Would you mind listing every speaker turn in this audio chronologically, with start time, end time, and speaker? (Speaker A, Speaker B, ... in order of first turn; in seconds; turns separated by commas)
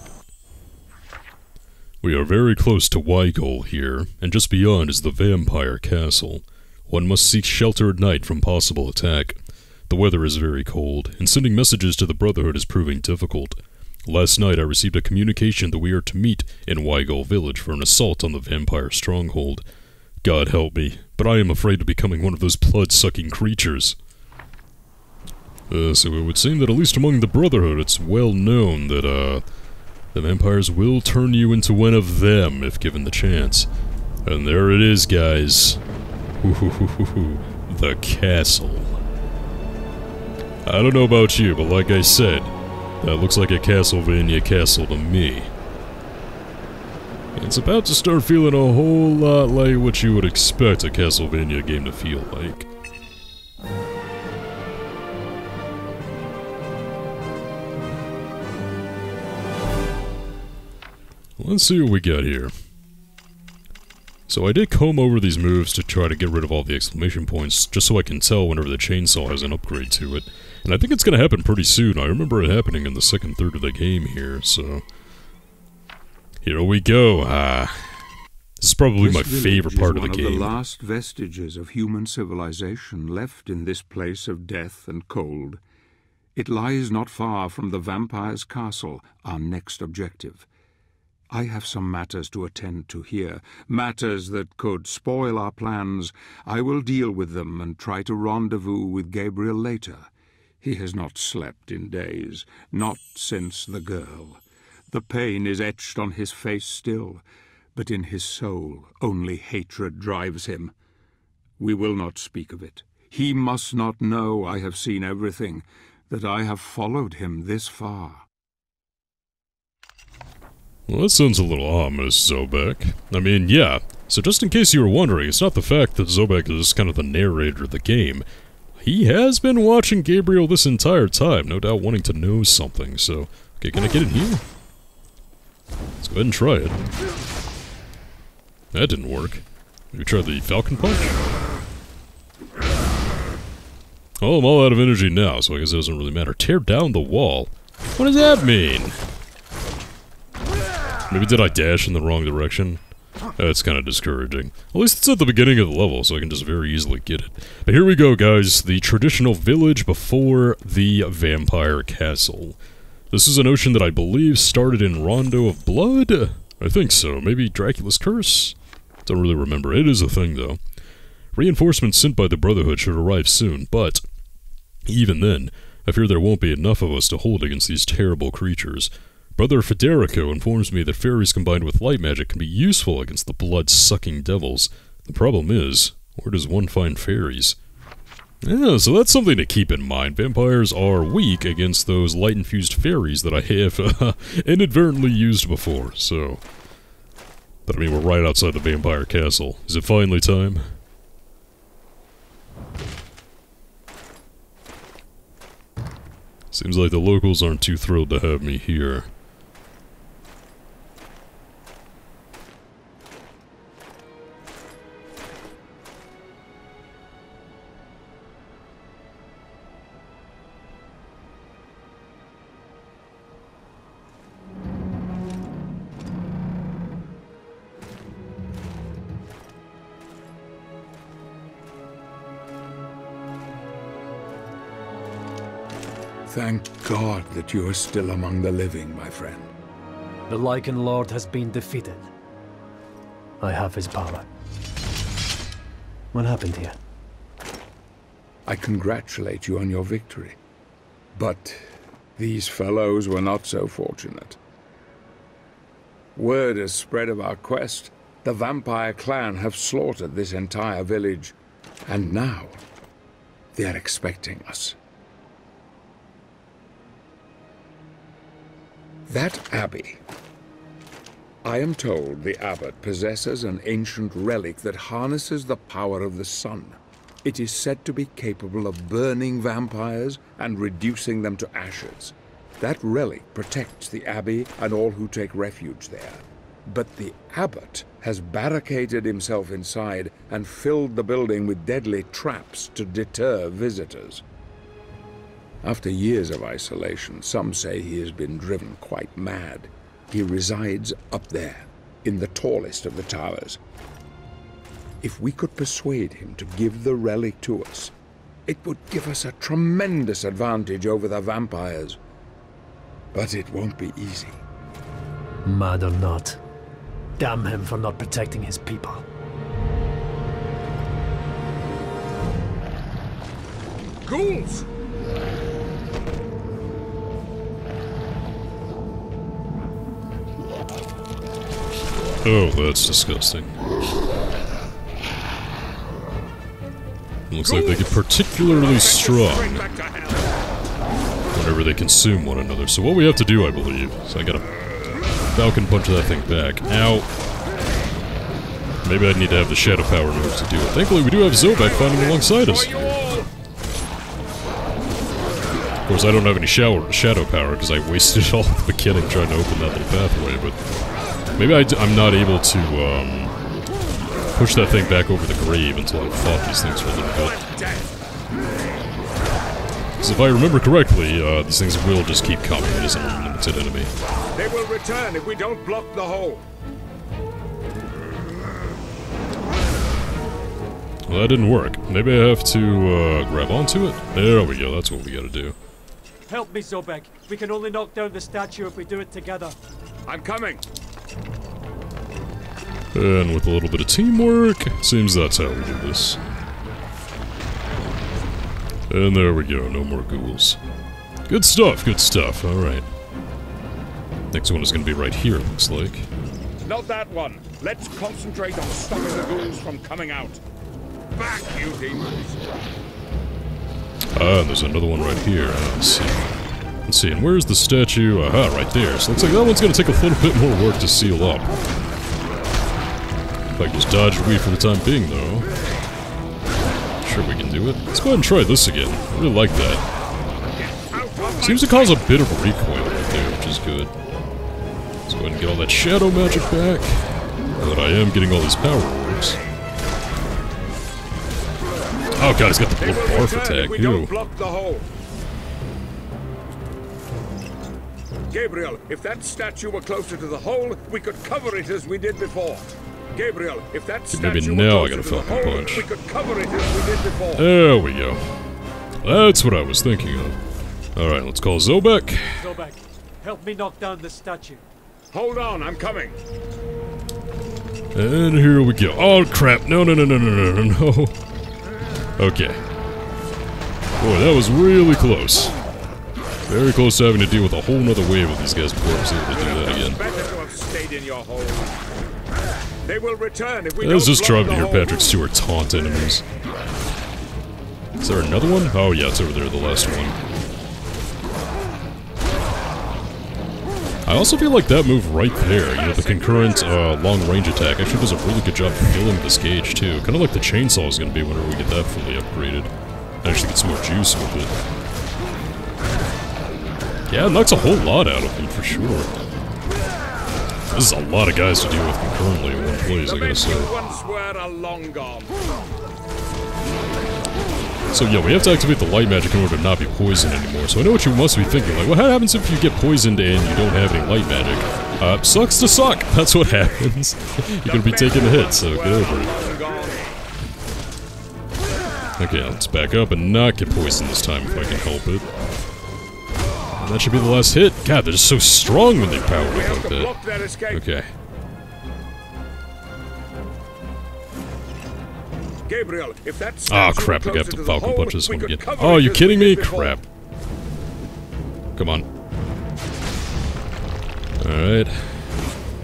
Speaker A: 2.0-19.6, Speaker A: 20.2-24.0, Speaker A: 25.7-29.4, Speaker A: 30.1-33.7, Speaker A: 34.2-35.8, Speaker A: 36.4-39.0, Speaker A: 40.6-45.5, Speaker A: 47.4-52.7, Speaker A: 61.4-62.5, Speaker A: 64.3-74.8, Speaker A: 76.4-78.0, Speaker A: 78.6-80.5, Speaker B: 79.0-85.6, Speaker B: 86.3-90.5, Speaker B: 91.3-100.1, Speaker B: 100.6-110.7, Speaker B: 111.6-118.2, Speaker A: 120.9-128.2, Speaker A: 128.8-134.4, Speaker A: 136.0-136.8, Speaker A: 138.7-141.2, Speaker A: 144.2-149.0, Speaker A: 151.1-152.8, Speaker A: 153.4-162.6, Speaker A: 163.1-170.6, Speaker A: 171.3-174.0, Speaker A: 174.9-187.6, Speaker A: 188.4-196.4, Speaker A: 197.7-200.6, Speaker A: 206.5-209.1, Speaker B: 236.3-239.5, Speaker C: 240.3-242.1, Speaker C: 243.4-244.3, Speaker C: 246.1-246.8, Speaker B: 248.5-250.4, Speaker B: 251.1-254.4, Speaker B: 256.1-261.4, Speaker B: 261.9-262.6, Speaker B: 263.5-264.8, Speaker B: 269.1-270.0, Speaker B: 271.4-294.2, Speaker B: 295.6-303.6, Speaker B: 305.0-307.9, Speaker B: 308.5-312.0, Speaker B: 313.1-314.4, Speaker C: 315.4-316.4, Speaker C: 317.2-319.0, Speaker B: 324.0-324.7, Speaker A: 332.2-333.6, Speaker A: 337.3-339.6, Speaker B: 337.4-340.4, Speaker A: 341.3-344.5, Speaker A: 345.3-347.1, Speaker A: 348.8-353.1, Speaker B: 351.4-353.3, Speaker A: 355.8-360.6, Speaker A: 361.3-363.4, Speaker A: 364.3-367.4, Speaker B: 367.0-368.0, Speaker A: 370.0-373.9, Speaker B: 374.3-376.5, Speaker A: 381.1-385.6, Speaker D: 386.3-389.6, Speaker B: 390.1-390.7, Speaker A: 392.9-396.2, Speaker A: 398.9-400.6, Speaker A: 401.3-402.9, Speaker A: 404.3-406.1, Speaker B: 406.6-410.4, Speaker B: 411.1-412.4, Speaker A: 414.1-416.2, Speaker A: 416.9-421.5, Speaker A: 423.5-425.5, Speaker A: 427.0-429.8, Speaker B: 430.6-432.1, Speaker A: 431.4-433.9, Speaker A: 435.1-439.4, Speaker A: 442.2-444.1, Speaker B: 442.8-444.9, Speaker B: 448.3-457.5, Speaker A: 454.1-455.9, Speaker A: 457.3-458.2, Speaker A: 459.0-460.4, Speaker A: 461.0-462.5, Speaker D: 462.3-464.6, Speaker B: 465.1-466.2, Speaker A: 467.9-471.2, Speaker A: 472.2-472.6, Speaker A: 474.0-475.5, Speaker A: 476.5-480.0, Speaker B: 479.3-481.8, Speaker B: 482.8-485.0, Speaker A: 483.8-486.2, Speaker A: 488.0-490.2, Speaker A: 494.1-502.7, Speaker B: 495.5-496.9, Speaker A: 503.2-504.5, Speaker A: 507.1-509.1, Speaker A: 510.7-513.7, Speaker B: 513.0-515.5, Speaker A: 517.9-529.3, Speaker B: 527.6-530.2, Speaker A: 532.2-535.3, Speaker A: 536.8-540.1, Speaker B: 539.3-540.8, Speaker A: 540.7-541.1, Speaker B: 545.7-550.0, Speaker A: 546.7-550.0, Speaker A: 551.8-552.0, Speaker A: 554.4-555.3